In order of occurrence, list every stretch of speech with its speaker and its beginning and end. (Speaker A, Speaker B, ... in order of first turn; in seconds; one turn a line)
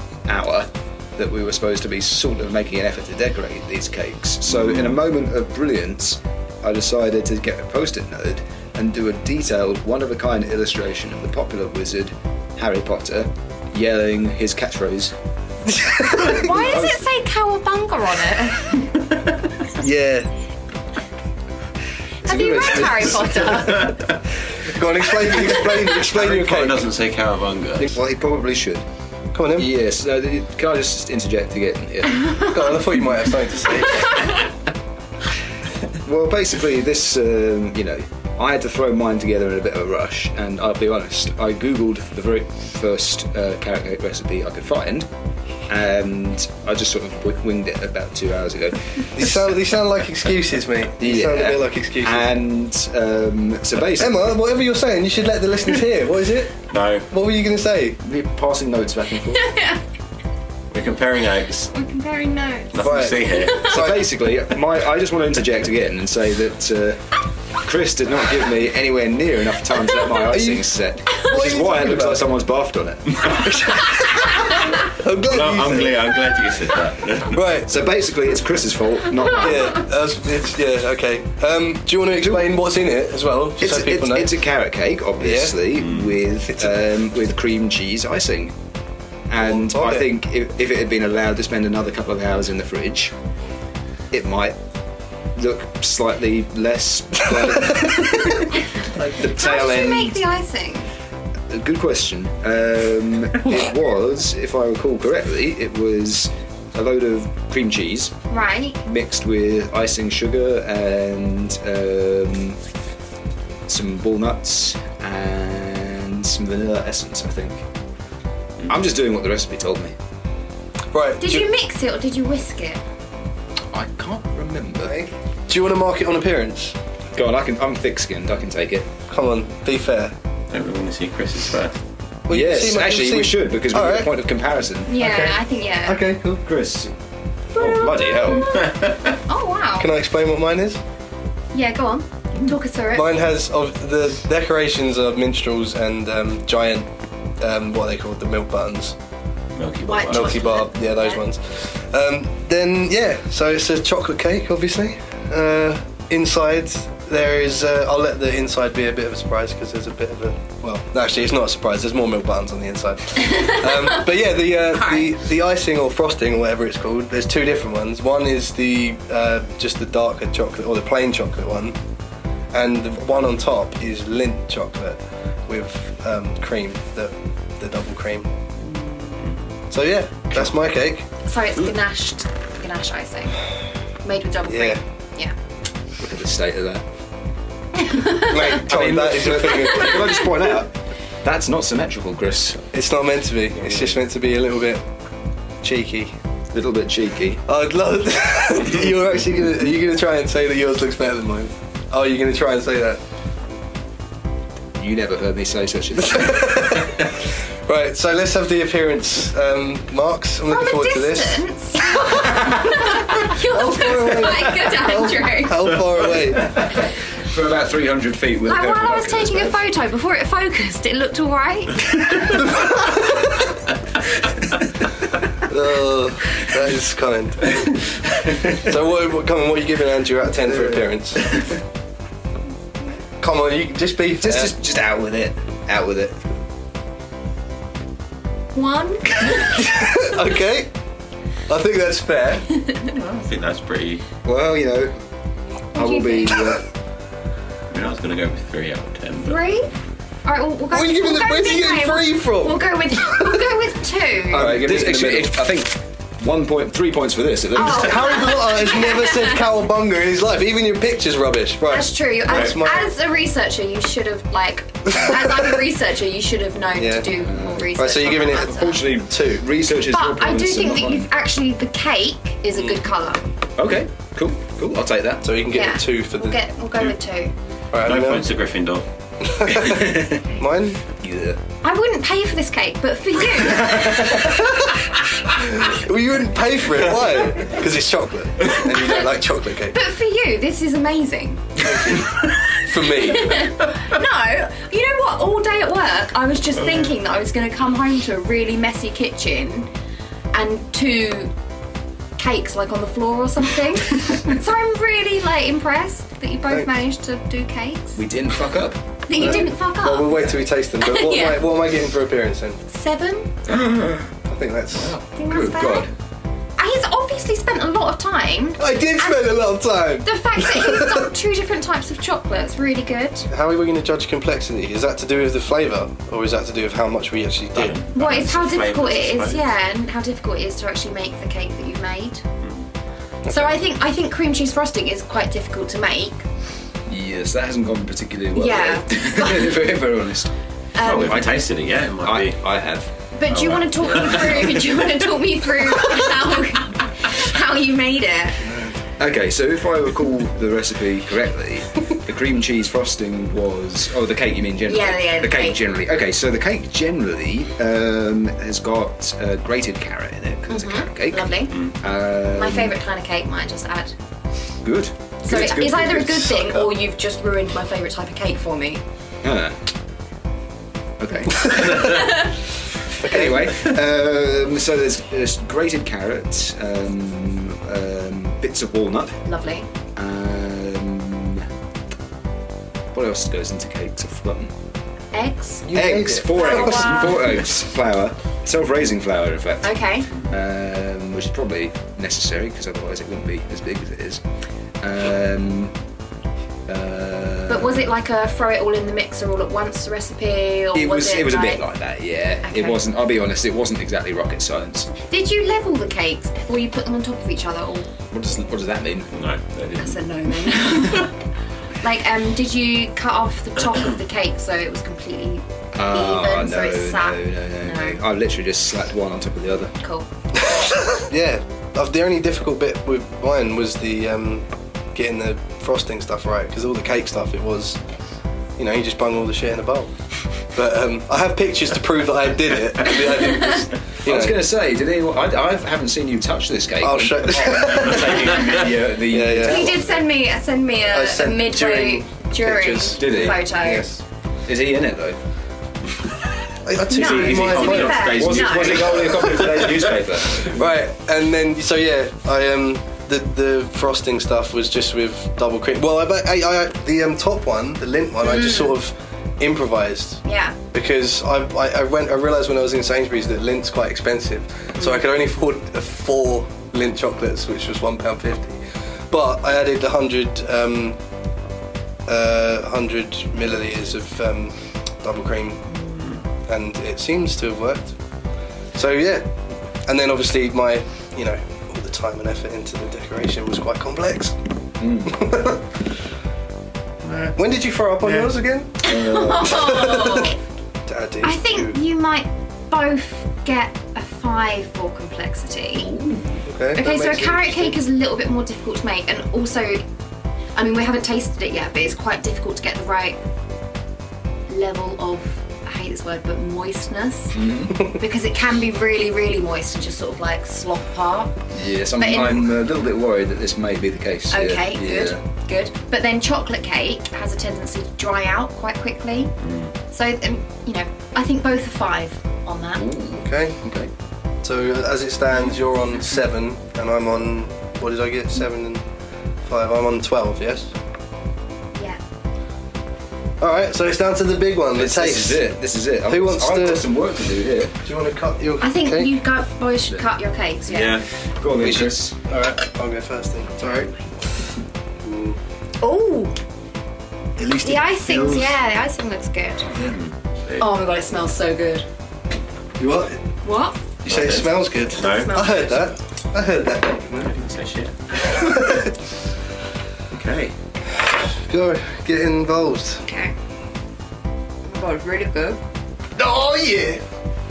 Speaker A: 0.2-15.1
Speaker B: 15.7-16.5
Speaker A: 16.2-17.0
Speaker C: 16.2-18.9
Speaker B: 19.8-20.3
Speaker A: 22.2-23.9
Speaker C: 22.2-24.0
Speaker B: 24.6-26.9
Speaker D: 26.1-27.9
Speaker A: 27.8-28.8
Speaker B: 29.3-29.7
Speaker A: 29.6-32.5
Speaker B: 32.4-34.3
Speaker A: 36.0-45.1
Speaker A: 45.7-49.3
Speaker B: 49.1-52.3
Speaker A: 51.0-54.3
Speaker B: 54.0-58.0
Speaker D: 56.7-57.1
Speaker A: 58.0-59.5
Speaker C: 59.4-59.8
Speaker D: 60.7-61.7
Speaker C: 61.7-63.8
Speaker D: 62.7-63.7
Speaker B: 62.8-64.1
Speaker A: 63.6-73.9
Speaker B: 70.3-72.3
Speaker B: 73.4-74.2
Speaker B: 74.9-76.1
Speaker D: 75.2-77.4
Speaker B: 77.3-77.8
Speaker A: 77.7-79.8
Speaker B: 79.3-84.4
Speaker A: 82.2-82.5
Speaker A: 83.6-88.5
Speaker B: 85.2-85.6
Speaker D: 85.8-86.1
Speaker B: 86.5-86.8
Speaker A: 89.3-93.1
Speaker B: 89.4-90.1
Speaker A: 94.1-94.6
Speaker A: 95.3-100.2
Speaker B: 97.6-98.2
Speaker C: 99.1-100.9
Speaker A: 101.5-108.1
Speaker C: 108.3-108.8
Speaker A: 108.8-112.6
Speaker A: 113.7-117.6
Speaker A: 118.7-119.9
Speaker B: 120.9-121.5
Speaker C: 121.2-122.8
Speaker A: 123.7-125.0
Speaker B: 124.8-126.7
Speaker A: 127.1-128.9
Speaker B: 129.1-130.1
Speaker D: 130.5-131.8
Speaker B: 132.3-134.1
Speaker A: 132.3-134.9
Speaker C: 134.9-136.0
Speaker B: 135.0-136.4
Speaker A: 136.4-136.9
Speaker A: 137.5-138.6
Speaker C: 137.5-139.9
Speaker D: 138.5-139.1
Speaker B: 139.8-140.8
Speaker C: 141.5-143.1
Speaker B: 142.9-146.9
Speaker B: 147.4-148.9
Speaker D: 149.5-150.6
Speaker C: 149.8-151.2
Speaker B: 150.1-171.8
Speaker C: 163.3-163.5
Speaker C: 164.9-165.1
Speaker B: 172.5-178.3
Speaker D: 179.0-179.4
Speaker B: 179.7-181.1
Speaker C: 181.2-183.4
Speaker C: 184.0-185.3
Speaker B: 184.5-184.8
Speaker A: 186.0-186.8
Speaker C: 187.8-188.5
Speaker B: 188.1-190.2
Speaker A: 188.5-192.7
Speaker B: 192.7-194.8
Speaker B: 195.6-196.1
Speaker A: 196.5-197.4
Speaker B: 197.5-203.0
Speaker A: 204.8-206.9
Speaker B: 206.1-211.4
Speaker C: 210.5-215.7
Speaker B: 213.3-216.5
Speaker A: 216.3-219.6
Speaker C: 218.4-222.4
Speaker B: 222.5-223.0
Speaker B: 225.4-231.3
Speaker A: 230.5-231.6
Speaker B: 233.2-234.5
Speaker A: 234.2-236.2
Speaker C: 238.5-239.7
Speaker B: 239.5-240.7
Speaker B: 241.5-242.5
Speaker C: 242.5-243.2
Speaker D: 243.2-244.0
Speaker A: 244.2-244.9
Speaker C: 245.7-246.5
Speaker A: 245.7-246.6
Speaker D: 247.7-249.4
Speaker C: 249.2-249.7
Speaker C: 250.2-254.5
Speaker B: 250.7-253.4
Speaker A: 254.3-258.2
Speaker B: 254.3-255.3
Speaker C: 257.5-259.4
Speaker B: 257.6-262.9
Speaker C: 261.7-268.8
Speaker B: 266.8-267.1
Speaker A: 267.2-271.1
Speaker B: 267.8-269.4
Speaker C: 269.8-273.2
Speaker A: 273.6-275.5
Speaker B: 275.2-276.4
Speaker C: 275.5-277.3
Speaker B: 277.7-278.3
Speaker D: 277.8-278.8
Speaker B: 279.2-280.8
Speaker A: 279.5-280.3
Speaker A: 280.9-281.4
Speaker C: 281.6-284.4
Speaker A: 283.4-284.4
Speaker B: 285.4-289.8
Speaker C: 288.5-289.1
Speaker C: 289.7-292.0
Speaker B: 291.6-293.5
Speaker C: 292.9-299.7
Speaker C: 300.3-301.3
Speaker C: 302.1-308.0
Speaker A: 307.9-309.4
Speaker C: 309.1-311.4
Speaker B: 309.2-312.6
Speaker C: 312.7-313.4
Speaker A: 313.5-314.1
Speaker B: 314.2-315.0
Speaker C: 315.1-315.9
Speaker A: 315.1-315.9
Speaker C: 316.6-319.4
Speaker B: 318.6-321.1
Speaker C: 320.0-323.3
Speaker B: 323.3-327.8
Speaker D: 327.5-329.5
Speaker C: 327.9-332.2
Speaker D: 332.4-332.6
Speaker B: 333.2-333.5
Speaker C: 333.3-336.2
Speaker A: 336.9-340.3
Speaker C: 338.3-339.6
Speaker C: 340.7-341.4
Speaker D: 340.8-342.4
Speaker A: 340.9-341.4
Speaker A: 342.0-342.9
Speaker C: 343.1-348.5
Speaker D: 343.3-344.7
Speaker A: 349.0-362.8
Speaker C: 354.7-355.6
Speaker C: 360.5-361.6
Speaker C: 362.3-363.9
Speaker A: 364.6-366.7
Speaker C: 365.2-368.8
Speaker A: 369.2-369.6
Speaker A: 371.0-372.3
Speaker C: 371.8-372.3
Speaker A: 373.0-379.2
Speaker B: 373.0-373.6
Speaker C: 379.2-379.7
Speaker A: 379.9-381.5
Speaker A: 382.9-384.5
Speaker C: 385.1-387.4
Speaker A: 385.6-394.2
Speaker B: 385.7-386.4
Speaker C: 389.6-390.1
Speaker A: 394.8-395.8
Speaker A: 396.7-397.9
Speaker C: 397.5-401.6
Speaker A: 400.7-404.9
Speaker C: 402.4-402.9
Speaker C: 405.1-407.9
Speaker A: 408.1-409.1
Speaker D: 409.1-410.1
Speaker C: 409.8-411.2
Speaker C: 411.8-418.0
Speaker A: 415.7-419.7
Speaker C: 419.8-420.1
Speaker B: 420.4-427.8
Speaker B: 428.6-434.4
Speaker A: 434.0-440.0
Speaker B: 436.8-439.8
Speaker C: 439.4-443.9
Speaker B: 440.9-444.0
Speaker A: 442.9-443.4
Speaker A: 444.4-445.2
Speaker B: 446.6-448.2
Speaker C: 446.9-449.6
Speaker A: 446.9-450.6
Speaker D: 447.1-449.7
Speaker B: 450.4-471.0
Speaker C: 458.2-458.8
Speaker C: 460.2-460.6
Speaker B: 472.1-475.7
Speaker B: 476.4-477.9
Speaker B: 478.7-479.2
Speaker B: 479.9-484.4
Speaker A: 484.8-485.2
Speaker B: 485.1-485.6
Speaker B: 487.3-488.8
Speaker A: 488.8-489.9
Speaker C: 488.8-490.4
Speaker B: 489.4-490.3
Speaker B: 490.9-491.8
Speaker C: 491.2-495.9
Speaker A: 495.8-496.4
Speaker B: 496.5-497.8
Speaker C: 496.7-499.8
Speaker C: 500.5-503.2
Speaker C: 504.5-511.3
Speaker A: 507.3-507.8
Speaker A: 511.5-515.2
Speaker C: 512.0-512.5
Speaker C: 514.3-519.3
Speaker D: 519.4-519.7
Speaker C: 519.9-522.9
Speaker A: 522.7-523.9
Speaker B: 523.2-523.6
Speaker B: 524.4-528.8
Speaker B: 529.4-530.7
Speaker C: 531.7-532.0
Speaker B: 533.4-535.5
Speaker A: 534.7-537.7
Speaker B: 536.1-536.9
Speaker B: 537.8-539.1
Speaker C: 538.6-541.0
Speaker D: 540.7-541.0
Speaker A: 541.4-542.1
Speaker B: 541.5-543.9
Speaker B: 545.0-545.4
Speaker C: 545.8-546.4
Speaker B: 547.4-548.5
Speaker C: 547.6-549.9
Speaker D: 549.7-550.7
Speaker C: 550.6-551.9
Speaker B: 552.8-553.2
Speaker C: 553.4-553.8
Speaker B: 554.0-557.3
Speaker D: 554.0-555.4
Speaker C: 555.0-555.9
Speaker D: 557.1-558.3
Speaker C: 558.2-558.5
Speaker B: 558.3-558.9
Speaker D: 560.1-560.5
Speaker B: 561.3-563.0
Speaker C: 563.0-563.3
Speaker C: 564.6-565.6
Speaker B: 566.2-567.0